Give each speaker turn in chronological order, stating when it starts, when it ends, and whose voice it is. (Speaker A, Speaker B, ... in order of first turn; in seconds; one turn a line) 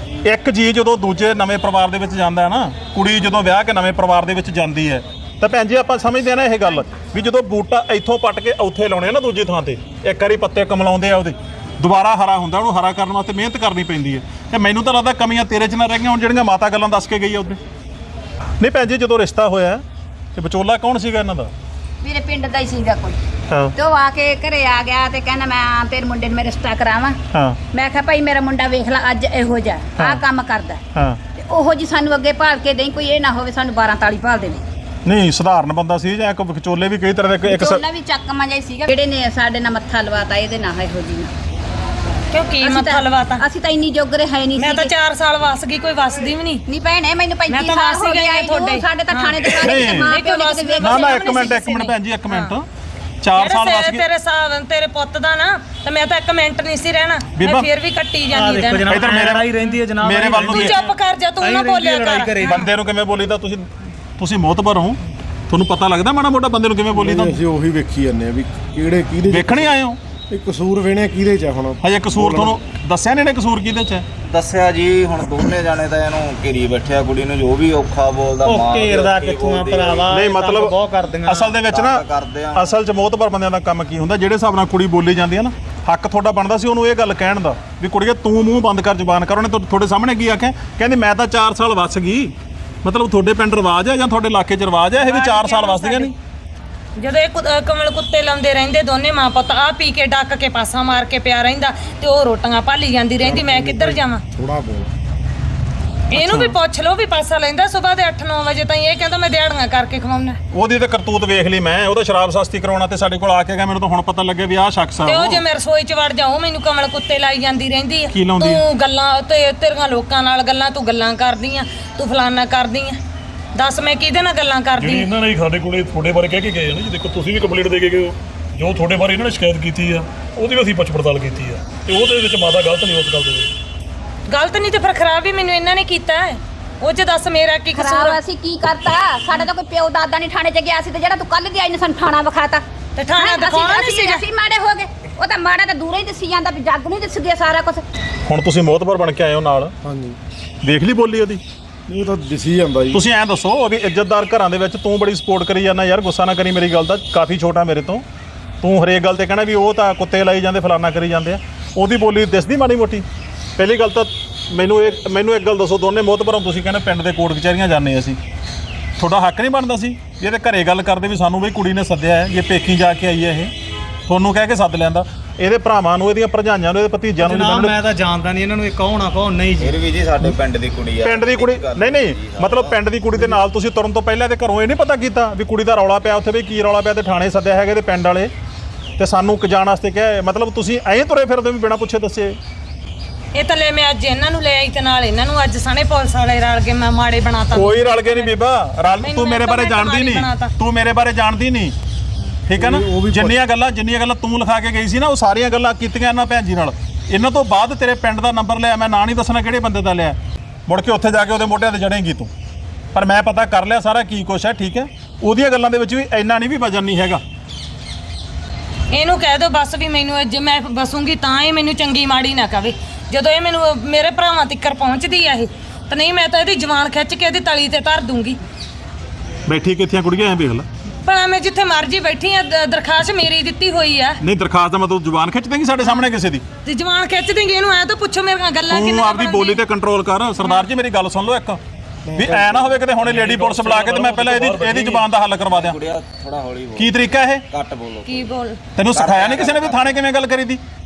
Speaker A: 0.3-17.6
Speaker A: 18.6-19.8
Speaker A: 20.4-21.5
Speaker B: 22.0-23.2
Speaker B: 23.8-27.2
Speaker A: 27.3-27.6
Speaker B: 27.7-30.8
Speaker A: 30.9-31.2
Speaker B: 31.4-34.6
Speaker A: 35.0-37.8
Speaker B: 37.5-41.3
Speaker C: 42.3-43.4
Speaker B: 42.6-44.9
Speaker C: 44.6-46.6
Speaker B: 46.7-51.3
Speaker C: 47.5-52.5
Speaker A: 49.6-50.1
Speaker A: 50.8-52.6
Speaker A: 53.2-54.0
Speaker C: 53.4-59.1
Speaker A: 57.4-57.7
Speaker D: 58.3-60.9
Speaker A: 58.9-59.5
Speaker A: 60.0-60.9
Speaker C: 60.4-62.7
Speaker D: 61.4-62.6
Speaker A: 62.4-67.4
Speaker E: 66.9-69.7
Speaker A: 69.3-70.0
Speaker E: 70.3-72.5
Speaker A: 71.8-74.1
Speaker F: 74.2-80.1
Speaker D: 78.4-81.6
Speaker A: 80.1-80.7
Speaker A: 81.3-92.3
Speaker F: 81.6-82.8
Speaker A: 92.8-96.1
Speaker C: 95.0-96.1
Speaker C: 97.0-104.2
Speaker E: 103.2-104.9
Speaker C: 106.1-110.4
Speaker A: 106.2-106.5
Speaker A: 110.5-115.4
Speaker C: 115.1-123.0
Speaker A: 118.1-118.6
Speaker C: 123.5-125.1
Speaker G: 124.8-133.5
Speaker C: 134.3-138.2
Speaker B: 137.7-142.6
Speaker C: 143.0-144.2
Speaker B: 143.2-147.8
Speaker A: 148.3-149.7
Speaker E: 149.8-150.2
Speaker A: 150.6-151.4
Speaker E: 151.9-153.0
Speaker A: 152.9-158.0
Speaker A: 158.6-163.1
Speaker A: 163.6-168.2
Speaker A: 169.0-173.5
Speaker A: 174.1-177.8
Speaker D: 177.2-179.8
Speaker F: 179.6-182.8
Speaker A: 181.0-188.3
Speaker A: 189.0-192.4
Speaker C: 193.3-200.5
Speaker A: 197.5-201.7
Speaker A: 202.5-212.3
Speaker E: 202.6-203.4
Speaker A: 212.9-217.2
Speaker C: 218.9-228.4
Speaker A: 229.5-230.7
Speaker C: 231.1-234.2
Speaker A: 234.2-236.4
Speaker C: 235.8-236.1
Speaker C: 236.7-239.6
Speaker A: 238.7-241.6
Speaker C: 240.4-240.7
Speaker E: 242.1-242.8
Speaker A: 242.1-245.8
Speaker G: 243.0-245.1
Speaker F: 245.4-247.0
Speaker A: 246.8-247.4
Speaker F: 247.5-248.3
Speaker C: 248.1-248.6
Speaker A: 248.8-250.6
Speaker F: 248.9-250.0